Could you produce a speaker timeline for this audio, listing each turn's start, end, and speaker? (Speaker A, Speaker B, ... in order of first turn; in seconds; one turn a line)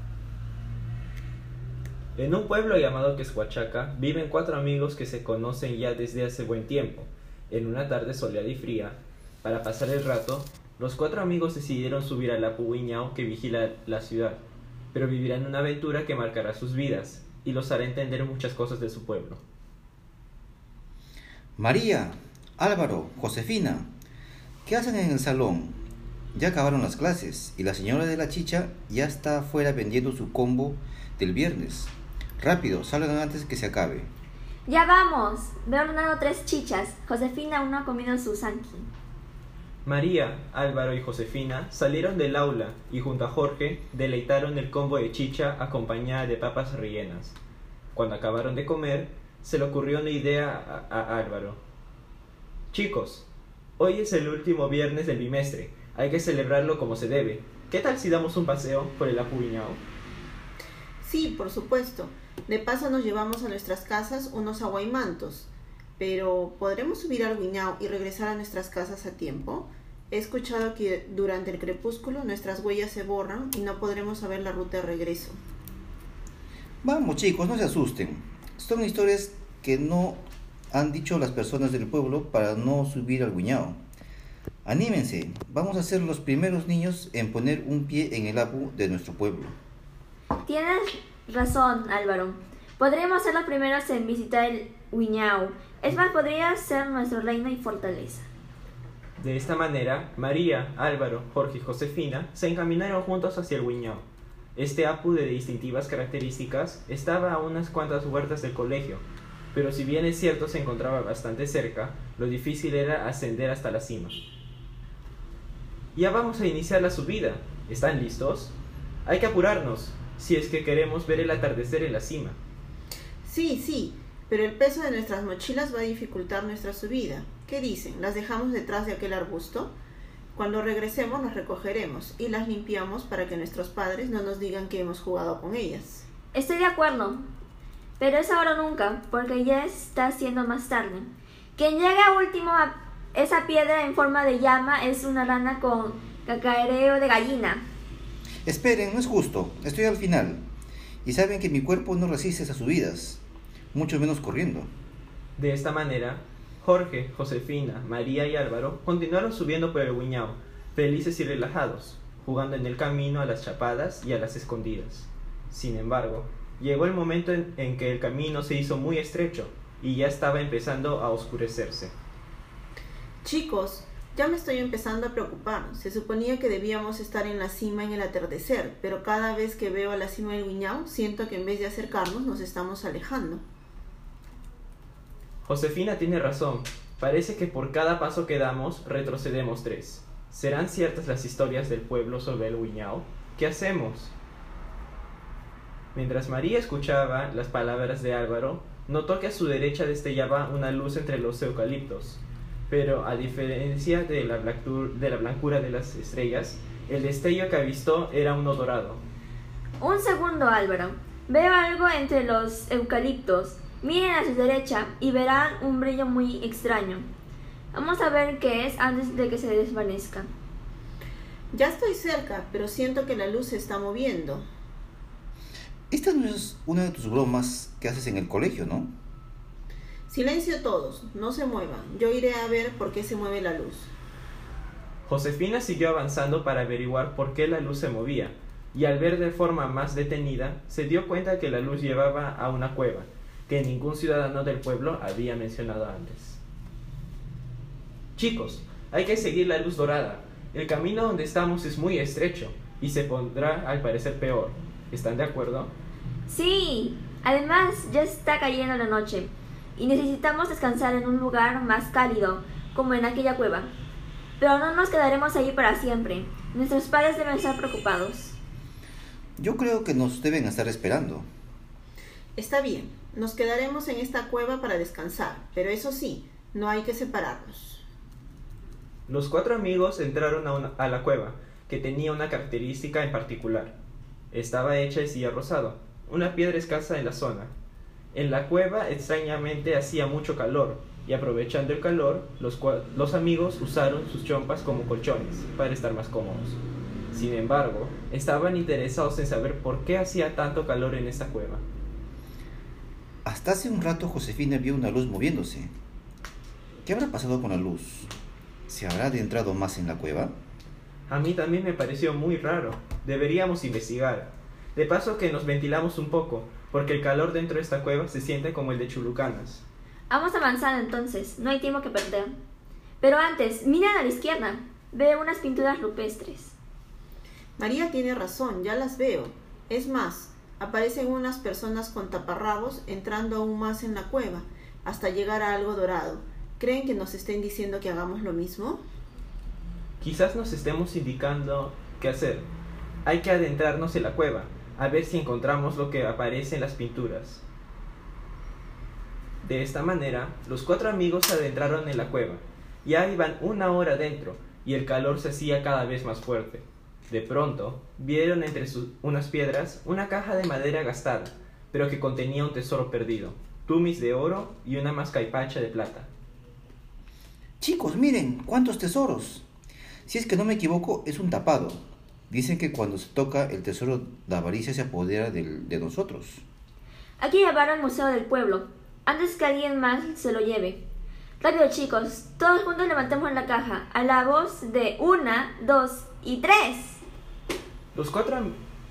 Speaker A: 2.1-14.4
Speaker A: 14.9-19.4
Speaker B: 21.6-23.9
Speaker B: 24.6-25.8
Speaker B: 26.3-34.1
Speaker C: 34.7-38.9
Speaker A: 39.8-47.4
Speaker A: 47.9-51.6
Speaker A: 52.7-53.2
Speaker A: 53.8-59.8
Speaker D: 61.0-75.4
Speaker B: 76.8-83.8
Speaker B: 84.6-89.5
Speaker C: 90.5-98.3
Speaker A: 99.2-114.2
Speaker A: 115.9-118.5
Speaker A: 119.0-122.4
Speaker D: 123.2-129.7
Speaker D: 130.3-136.1
Speaker C: 136.3-137.2
Speaker C: 138.0-147.6
Speaker B: 148.4-150.4
Speaker B: 151.0-153.2
Speaker B: 153.7-154.7
Speaker A: 155.4-171.9
Speaker D: 173.2-183.4
Speaker A: 185.4-194.1
Speaker A: 195.9-209.0
Speaker C: 209.8-217.1
Speaker C: 217.7-220.3
Speaker D: 221.5-224.4
Speaker B: 225.9-228.9
Speaker D: 230.1-233.9
Speaker A: 235.1-246.4
Speaker A: 248.2-255.7
Speaker C: 256.3-263.7
Speaker C: 264.4-268.4
Speaker B: 269.4-271.2
Speaker D: 272.4-277.8
Speaker A: 279.1-283.8
Speaker A: 284.3-287.5
Speaker A: 288.1-296.6
Speaker A: 297.1-301.6
Speaker B: 303.2-305.7
Speaker B: 306.8-308.1
Speaker B: 308.7-310.3
Speaker A: 311.1-319.6
Speaker C: 320.1-322.3
Speaker C: 323.0-326.5
Speaker D: 327.6-338.8
Speaker A: 340.0-342.5
Speaker A: 343.0-347.4
Speaker A: 349.4-366.1
Speaker B: 367.6-369.4
Speaker B: 370.1-376.4
Speaker C: 377.2-380.8
Speaker C: 381.4-387.0
Speaker A: 387.9-388.5